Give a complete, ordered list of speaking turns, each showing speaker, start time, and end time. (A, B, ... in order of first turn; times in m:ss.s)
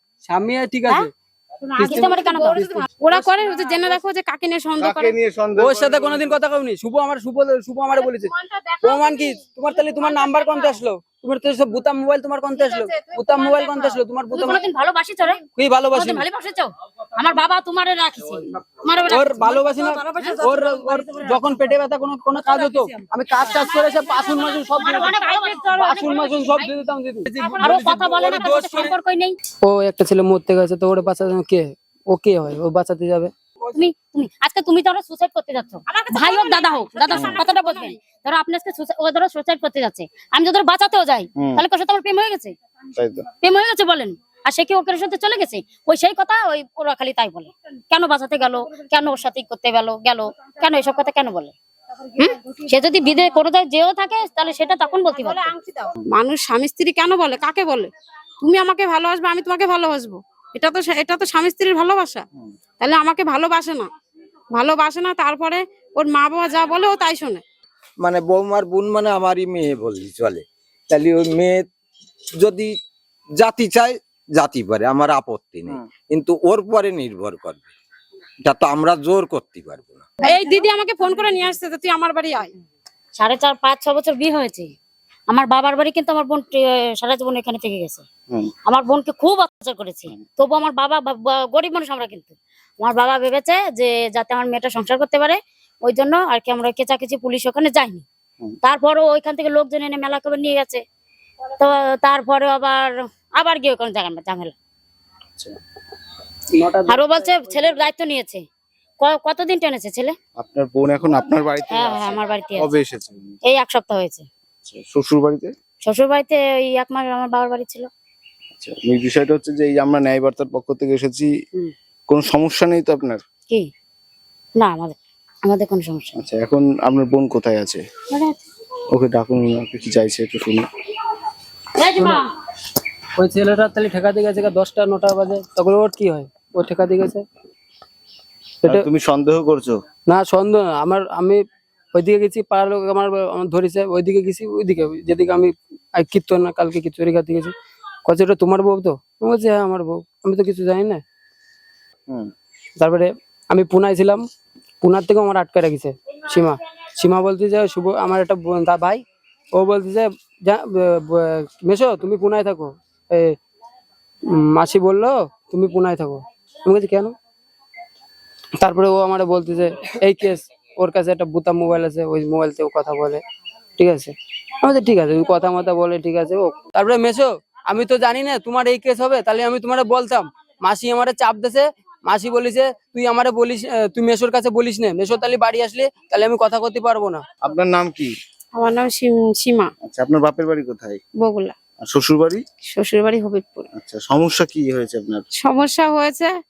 0:00.2-0:01.1 A
0:01.6-0:05.1 B
0:01.8-0:04.0 A
0:01.8-0:02.6 C
0:04.8-0:06.3 D
0:05.6-0:08.3 A
0:07.9-0:10.8 B
0:08.8-0:14.6 A
0:12.5-0:14.0 B
0:14.3-0:15.4 C
0:15.6-0:16.2 A
0:15.9-0:21.3 C
0:19.0-0:25.1 A
0:22.4-0:26.0 B
0:24.6-0:26.6 C
0:25.7-0:28.8 A
0:27.4-0:27.7 B
0:27.6-0:29.4 C
0:29.6-0:33.3 A
0:33.7-0:42.5 C
0:35.8-0:38.0 B
0:37.1-0:37.4 D
0:41.4-0:41.6 D
0:43.0-0:43.2 D
0:43.4-0:51.5 C
0:52.2-0:52.5 B
0:52.5-0:55.5 C
0:55.1-0:57.9 B
0:58.4-1:02.2 B
1:02.8-1:03.8 B
1:04.5-1:07.4 B
1:08.0-1:11.6 E
1:12.3-1:12.7 E
1:13.4-1:17.6 E
1:18.4-1:20.0 E
1:20.2-1:22.5 B
1:23.2-1:24.7 C
1:25.3-1:28.0 C
1:28.7-1:38.0 C
1:38.6-1:40.8 C
1:41.6-1:44.5 C
1:46.5-1:47.8 A
1:46.9-1:48.4 C
1:49.0-1:50.2 C
1:50.4-1:53.3 D
1:51.7-1:52.7 C
1:53.4-1:54.2 C
1:54.6-1:55.5 D
1:55.8-1:57.9 C
1:58.6-2:01.3 D
2:02.1-2:03.2 D
2:04.6-2:06.1 C
2:06.2-2:07.8 D
2:08.9-2:10.6 D
2:11.8-2:12.2 C
2:12.0-2:12.3 A
2:13.2-2:17.2 A
2:18.6-2:18.9 A
2:18.6-2:19.8 D
2:20.1-2:21.4 A
2:21.9-2:27.5 A
2:28.1-2:31.0 A
2:32.8-2:34.2 A
2:34.8-2:39.0 A
2:39.5-2:43.4 A
2:44.3-2:47.1 A
2:48.6-2:53.2 A
2:53.8-3:07.2 A
3:07.4-3:08.1 D
3:08.5-3:09.7 B
3:09.8-3:11.0 D
3:11.2-3:11.5 B
3:11.8-3:12.4 D
3:12.7-3:13.7 B
3:13.7-3:15.2 D
3:15.4-3:16.3 B